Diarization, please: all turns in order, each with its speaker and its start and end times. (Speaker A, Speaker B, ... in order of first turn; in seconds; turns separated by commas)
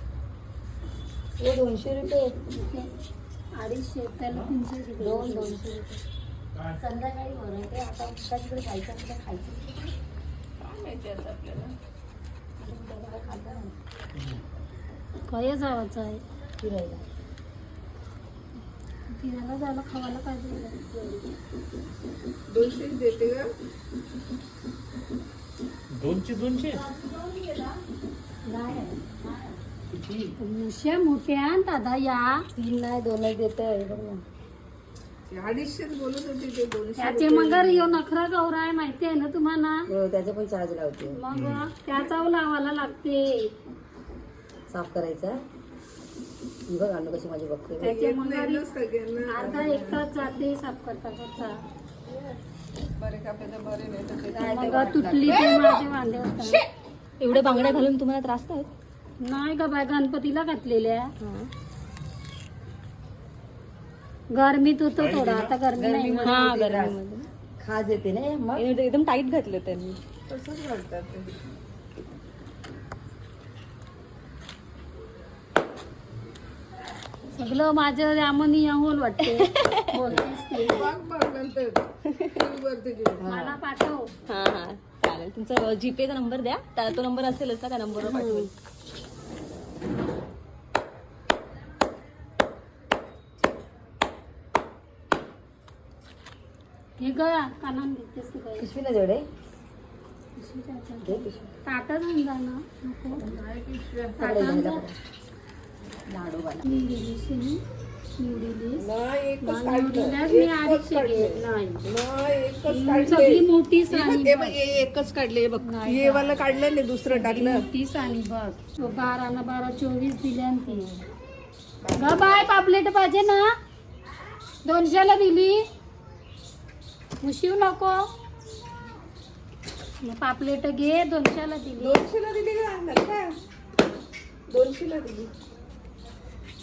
Speaker A: 1.4-2.3, Speaker B: 2.5-2.9, Speaker B: 3.5-5.6, Speaker A: 5.0-6.0, Speaker A: 6.8-9.9, Speaker C: 10.6-11.7, Speaker A: 12.6-13.7, Speaker B: 15.3-16.2, Speaker A: 16.6-17.0, Speaker B: 19.1-21.3, Speaker C: 22.5-23.5, Speaker A: 26.6-27.7, Speaker A: 28.5-30.3, Speaker B: 30.4-32.4, Speaker A: 32.5-34.2, Speaker C: 35.3-38.0, Speaker B: 37.0-39.9, Speaker A: 39.9-41.2, Speaker B: 41.1-43.5, Speaker A: 44.7-45.4, Speaker A: 46.7-47.9, Speaker B: 47.8-48.7, Speaker C: 47.8-50.1, Speaker B: 49.3-51.6, Speaker C: 52.0-52.4, Speaker C: 53.0-55.9, Speaker A: 54.3-55.4, Speaker B: 54.5-56.6, Speaker C: 56.4-56.7, Speaker D: 57.2-58.7, Speaker C: 57.3-57.8, Speaker B: 59.2-61.1, Speaker D: 61.2-61.5, Speaker B: 64.3-66.5, Speaker A: 65.7-67.0, Speaker D: 66.2-67.3, Speaker A: 67.6-68.6, Speaker D: 68.5-70.0, Speaker C: 70.3-71.5, Speaker B: 77.3-80.9, Speaker D: 79.4-79.8, Speaker C: 80.6-83.5, Speaker A: 83.2-83.5, Speaker B: 83.2-84.1, Speaker D: 84.3-88.5, Speaker B: 88.0-88.5, Speaker B: 97.0-98.7, Speaker A: 98.6-99.2, Speaker B: 100.3-103.2, Speaker A: 101.0-101.5, Speaker C: 103.2-104.2, Speaker B: 104.2-104.9, Speaker A: 104.2-104.9, Speaker A: 106.1-106.7, Speaker B: 106.6-107.6, Speaker B: 108.2-108.9, Speaker C: 108.8-117.6, Speaker B: 109.4-111.8, Speaker B: 112.7-114.6, Speaker B: 115.6-116.5, Speaker B: 117.0-120.9, Speaker C: 120.7-120.9, Speaker C: 121.8-122.5, Speaker B: 122.0-123.4, Speaker B: 124.6-125.6, Speaker B: 127.2-128.0, Speaker B: 130.0-132.0, Speaker C: 131.8-133.3, Speaker C: 134.5-135.3